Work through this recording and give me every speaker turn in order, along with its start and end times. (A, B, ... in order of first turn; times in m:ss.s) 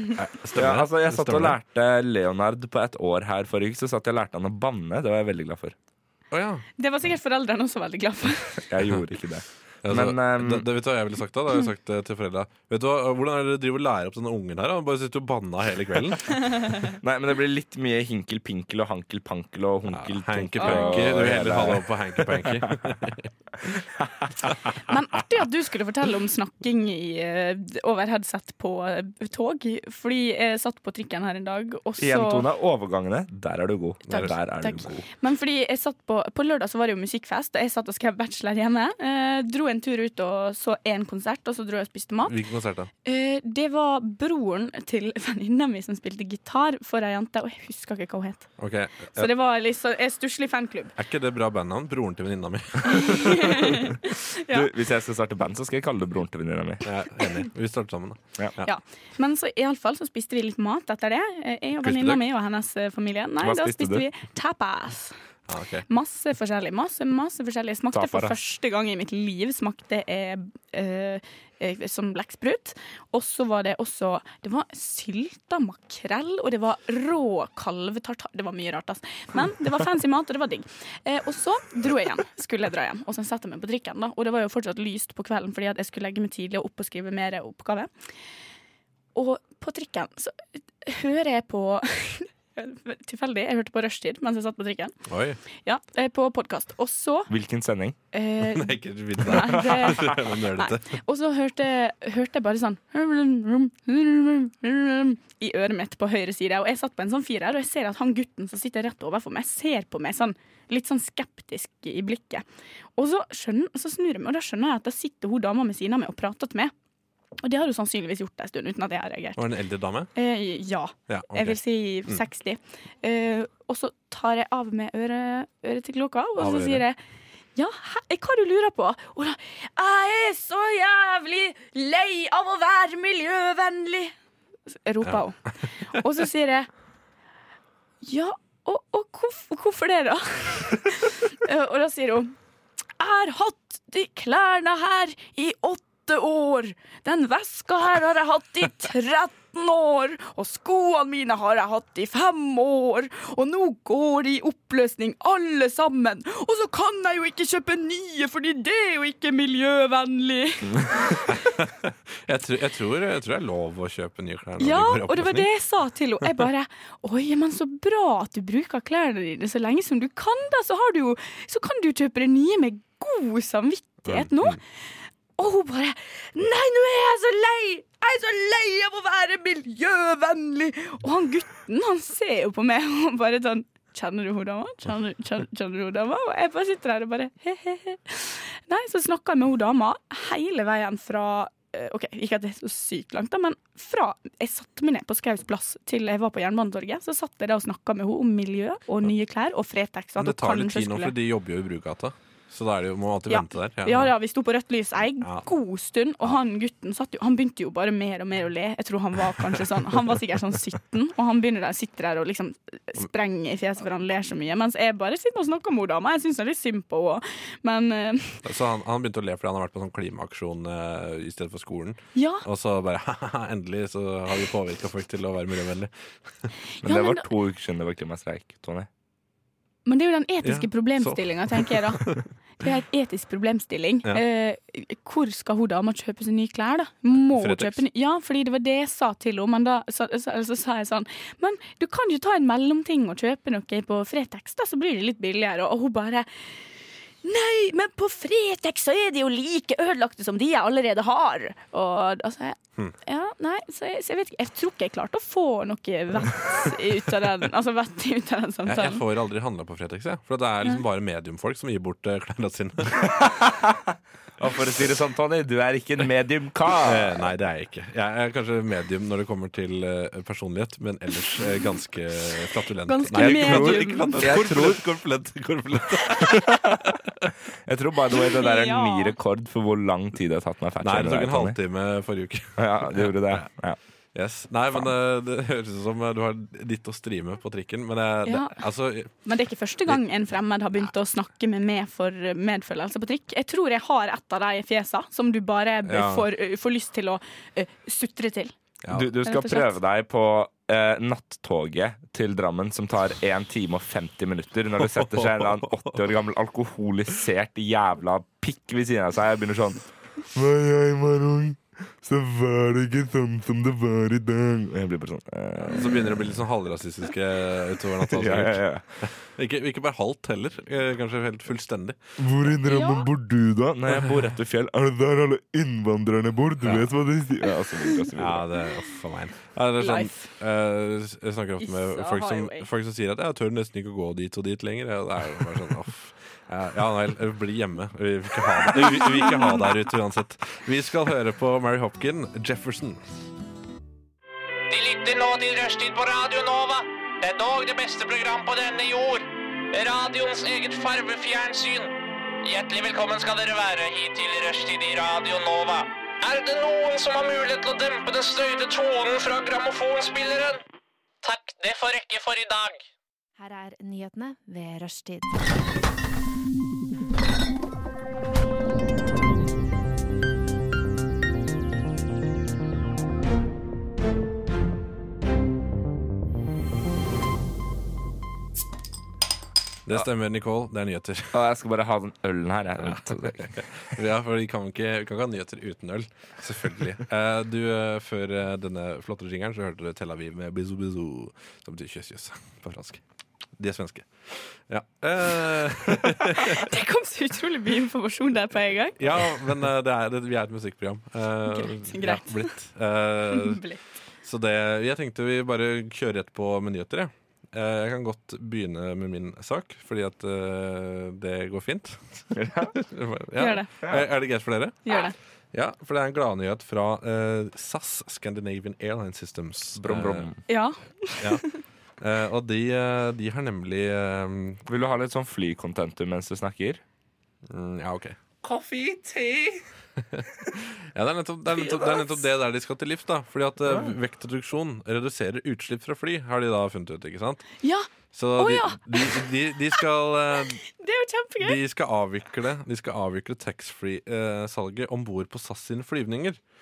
0:00.2-0:01.6 A
0:00.5-0:05.7 B
0:06.3-0:06.6 A
0:06.8-0:08.6 C
0:08.7-0:10.7 B
0:09.8-0:16.5 A
0:16.9-0:22.7 B
0:19.9-0:23.8 A
0:20.6-0:21.0 C
0:24.0-0:24.3 B
0:24.7-0:32.4 C
0:32.0-0:35.0 B
0:34.1-0:34.3 A
0:34.1-0:42.4 C
0:42.2-0:42.9 A
0:43.0-0:48.5 C
0:48.6-0:49.3 A
0:49.1-0:50.9 C
0:51.0-0:53.7 A
0:52.8-0:54.7 C
0:54.5-0:56.9 B
0:56.8-0:58.7 A
0:58.6-1:05.2 C
1:01.8-1:02.2 A
1:03.4-1:04.0 B
1:05.5-1:05.8 A
1:05.9-1:27.9 C
1:07.9-1:08.4 B
1:29.1-1:35.0 C
1:35.1-1:35.4 A
1:35.6-1:37.3 C
1:37.3-1:38.0 B
1:38.1-1:52.4 C
1:38.4-1:40.9 A
1:53.0-1:56.7 C
1:57.4-1:59.4 C
1:59.4-2:00.1 A
2:00.1-2:07.0 C
2:01.1-2:02.2 A
2:06.4-2:06.8 A
2:07.5-2:14.1 C
2:14.7-2:16.7 C
2:18.0-2:22.3 C
2:23.0-2:41.3 C
2:41.3-2:45.5 A
2:44.6-2:54.6 C
2:54.0-2:54.6 A
2:55.4-3:21.2 C
3:20.2-3:24.1 A
3:23.3-3:38.4 C
3:25.2-3:25.4 A
3:38.4-3:45.9 A
3:42.1-3:42.4 C
3:46.8-3:47.3 C
3:46.8-3:48.9 B
3:49.8-3:52.1 C
3:50.4-3:52.2 A
3:52.6-4:06.3 C
3:57.3-3:57.8 A
4:07.2-4:19.0 C
4:18.6-4:23.1 A
4:24.4-4:27.2 B
4:26.8-4:37.0 A
4:32.9-4:34.4 C
4:33.1-4:34.8 B
4:36.3-4:36.9 B
4:37.6-4:41.6 B
4:38.1-4:39.1 C
4:40.8-4:43.5 A
4:42.6-4:43.8 B
4:44.1-4:49.1 A
4:48.2-4:48.6 C
4:49.2-4:58.5 C
4:55.8-4:56.3 A
4:58.8-4:59.1 A
4:58.9-5:16.1 B
4:59.2-4:59.7 C
5:04.8-5:05.9 A
5:15.7-5:22.1 A
5:18.1-5:18.8 B
5:22.2-5:28.5 B
5:22.7-5:23.1 C
5:23.9-5:24.3 A
5:26.6-5:26.9 A
5:28.2-5:43.0 A
5:29.8-5:30.3 C
5:31.6-5:32.7 C
5:38.7-5:39.6 C
5:44.7-6:00.6 D
6:01.2-6:02.8 D
6:03.4-6:05.4 E
6:19.8-6:21.4 A
6:21.3-6:23.6 B
6:22.8-6:33.0 A
6:33.6-6:36.7 A
6:36.3-6:39.2 C
6:39.0-6:43.6 A
6:41.5-6:42.5 C
6:43.3-6:43.8 C
6:44.2-6:55.0 A
6:52.3-6:52.7 B
6:53.4-6:53.7 C
6:54.8-6:55.1 C
6:55.5-7:00.3 A
6:59.8-7:00.4 B
7:00.5-7:01.6 C
7:02.0-7:04.6 A
7:04.7-7:06.8 B
7:07.5-7:08.2 A
7:08.4-7:09.6 B
7:10.0-7:17.4 A
7:17.6-7:19.3 C
7:18.1-7:20.6 A
7:20.7-7:21.6 C
7:21.4-7:26.4 A